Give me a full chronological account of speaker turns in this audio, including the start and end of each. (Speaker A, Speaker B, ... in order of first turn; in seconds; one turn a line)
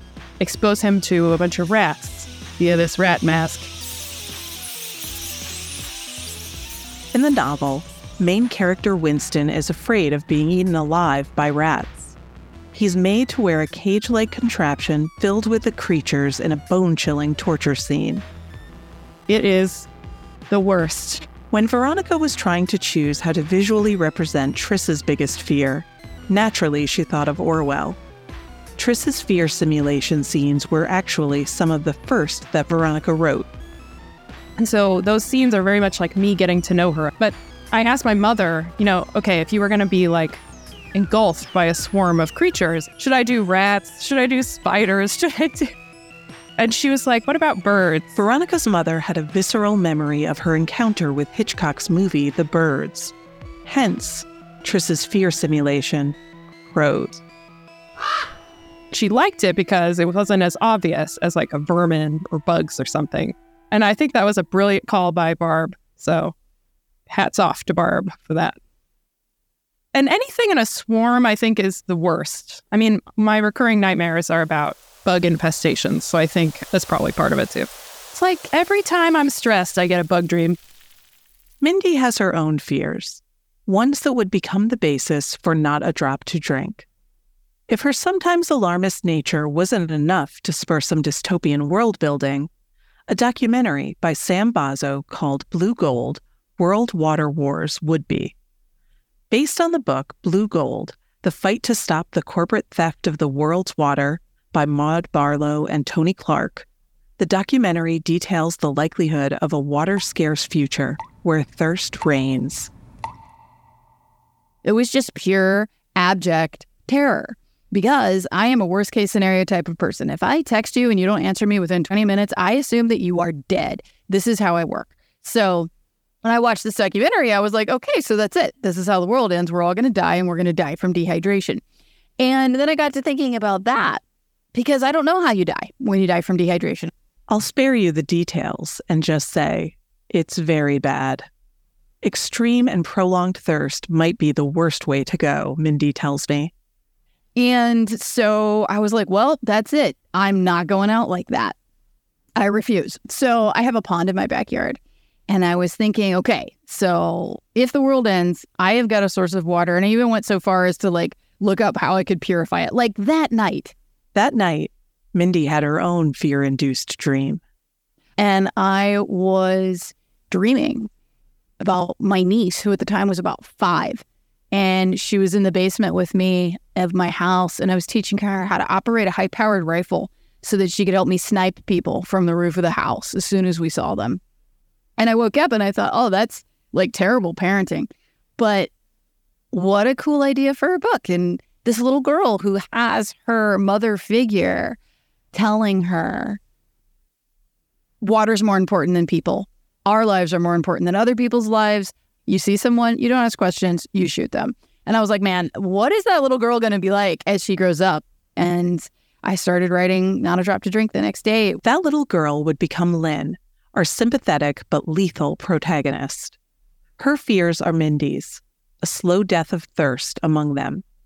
Speaker A: 0.4-3.7
Speaker B: 7.1-12.2
Speaker B: 12.7-18.2
Speaker A: 19.3-19.9
Speaker A: 20.5-21.2
Speaker B: 21.5-28.0
Speaker B: 28.8-33.5
Speaker A: 34.6-40.4
Speaker A: 40.9-45.7
Speaker A: 46.6-48.1
Speaker B: 48.1-53.1
Speaker B: 53.6-56.2
Speaker B: 56.7-57.2
Speaker A: 58.9-66.3
Speaker A: 67.1-68.6
Speaker A: 69.9-80.6
Speaker B: 81.6-86.9
Speaker B: 87.7-92.5
Speaker B: 93.1-98.3
Speaker B: 99.3-106.7
Speaker B: 107.2-112.7
Speaker C: 114.6-125.7
Speaker C: 126.2-131.6
Speaker C: 132.2-134.0
Speaker C: 134.5-136.9
Speaker B: 137.3-141.3
Speaker B: 142.0-146.5
Speaker C: 147.3-151.6
Speaker C: 152.3-163.7
Speaker B: 164.1-167.4
Speaker C: 168.2-170.9
Speaker C: 171.6-184.2
Speaker C: 185.0-188.7
Speaker C: 189.5-194.8
Speaker C: 195.3-196.4
Speaker C: 198.0-211.6
Speaker B: 211.6-216.3
Speaker B: 217.0-220.8